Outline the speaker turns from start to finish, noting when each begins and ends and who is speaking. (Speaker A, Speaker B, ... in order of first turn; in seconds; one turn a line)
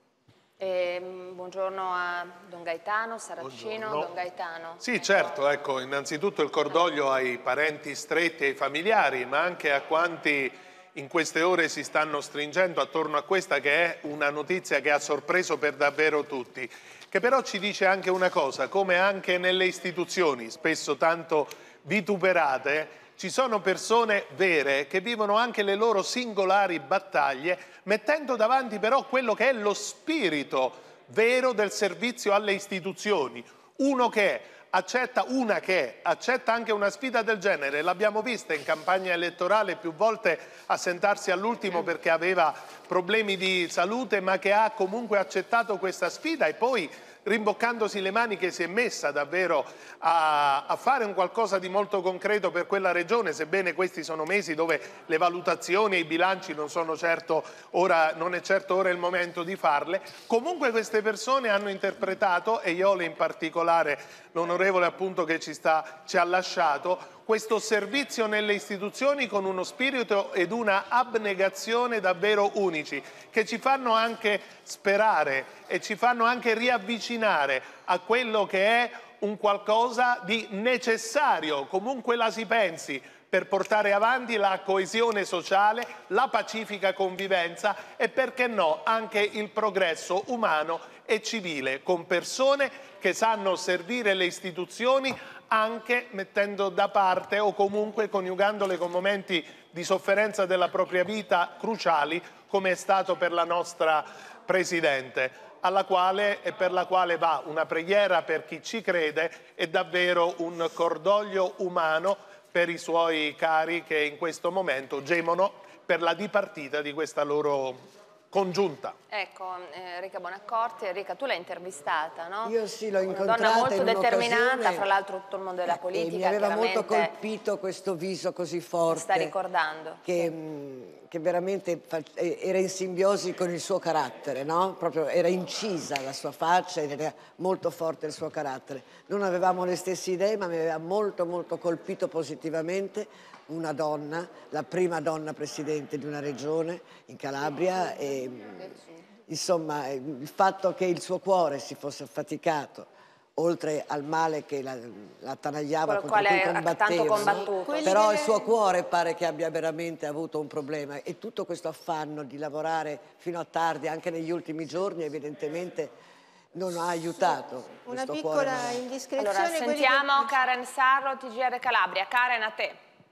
Speaker A: 0.6-5.2
Speaker B: 3.4-4.1
Speaker B: 4.8-117.8
Speaker B: 118.3-119.0
Speaker A: 119.1-122.5
Speaker C: 122.4-124.9
Speaker A: 123.1-127.1
Speaker C: 125.7-129.3
Speaker A: 128.9-130.3
Speaker C: 130.0-165.9
Speaker A: 155.8-157.9
Speaker D: 157.4-158.6
Speaker C: 166.5-168.8
Speaker D: 167.1-170.4
Speaker A: 169.2-172.8